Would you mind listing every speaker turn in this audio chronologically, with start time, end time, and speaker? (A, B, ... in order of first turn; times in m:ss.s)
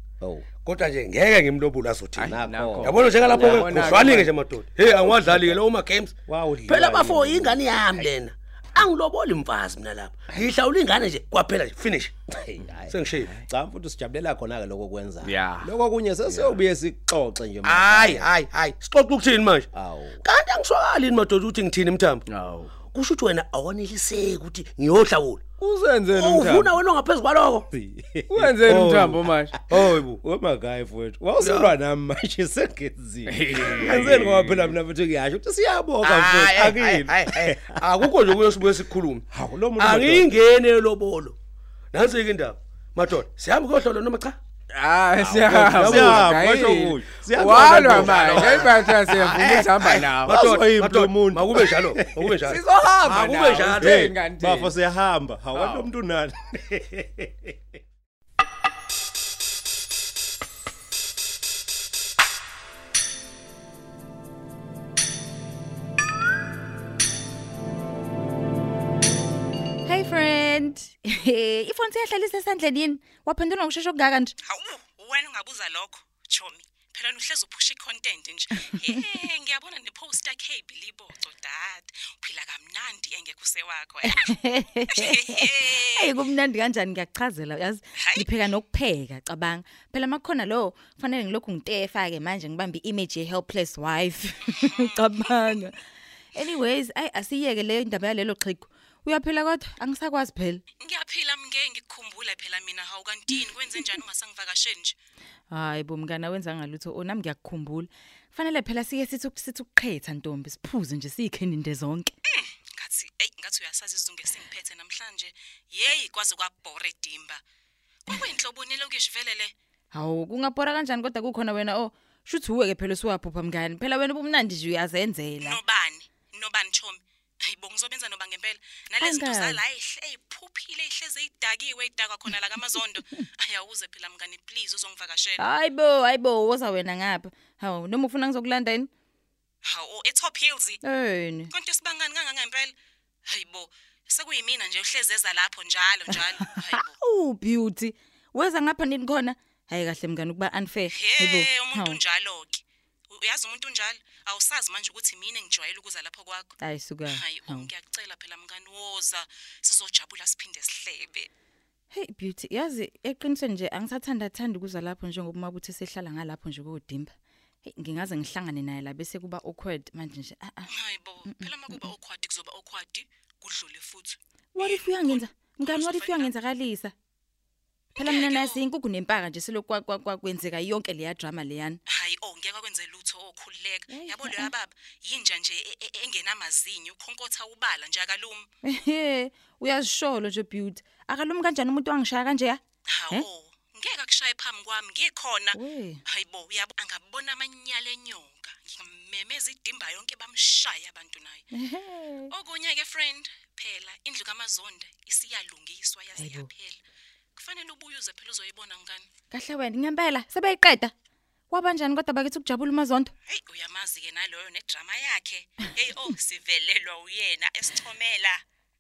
0:00.2-0:00.5 A
0:00.6-0:06.1 B
0:02.2-0:04.3 C
0:02.2-0:03.8 A
0:04.9-0:05.6 A
0:06.2-0:08.1 A
0:06.7-0:12.2 B
0:12.3-0:18.3 A
0:12.9-0:13.3 B
0:15.2-0:15.7 C
0:17.6-0:19.7 B
0:19.7-0:20.2 A
0:20.2-0:22.2 B
0:22.3-0:22.8 C
0:22.9-0:25.4 B
0:25.6-0:26.7 C
0:26.1-0:27.7 B
0:27.7-0:38.1 A
0:28.3-0:29.6 C
0:28.9-0:29.1 B
0:29.7-0:30.2 B
0:31.4-0:31.7 B
0:33.3-0:34.7 C
0:33.7-0:34.4 B
0:36.0-0:41.3 B
0:39.3-0:40.4 A
0:41.9-0:44.4 B
0:44.7-0:50.3 C
0:45.2-0:48.6 A
0:45.7-0:46.3 B
0:48.2-0:54.1 B
0:50.2-0:52.3 A
0:52.3-0:54.8 C
0:53.7-0:57.6 A
0:55.5-0:55.9 C
1:09.8-1:14.3 D
1:14.4-1:26.2 E
1:24.1-1:35.8 D
1:28.0-1:28.3 E
1:34.6-1:35.1 E
1:36.3-1:40.6 D
1:40.8-1:45.0 E
1:45.5-1:52.1 D
1:52.3-1:57.4 E
1:58.0-1:59.5 E
1:59.9-2:05.6 D
2:05.4-2:15.5 E
2:09.0-2:09.6 D
2:15.4-2:18.9 D
2:19.7-2:20.8 E
2:20.8-2:21.5 D
2:21.5-2:22.7 E
2:23.3-2:26.9 E
2:26.8-2:32.0 D
2:30.9-2:36.5 E
2:36.6-2:37.7 D
2:37.1-2:41.3 E
2:41.9-2:47.1 D
2:47.6-2:50.7 D
2:50.7-2:56.3 E
2:51.3-2:51.7 D
2:54.6-2:56.9 D
2:58.0-2:58.7 E
2:58.0-3:01.8 D
3:01.9-3:08.5 E
3:03.9-3:04.5 D
3:08.6-3:12.6 D
3:12.9-3:21.5 E
3:15.5-3:16.0 D
3:21.5-3:22.3 D
3:22.3-3:26.8 E
3:26.2-3:26.5 D
3:27.4-3:29.0 E
3:29.3-3:30.9 D
3:31.5-3:33.1 D
3:33.3-3:38.4 E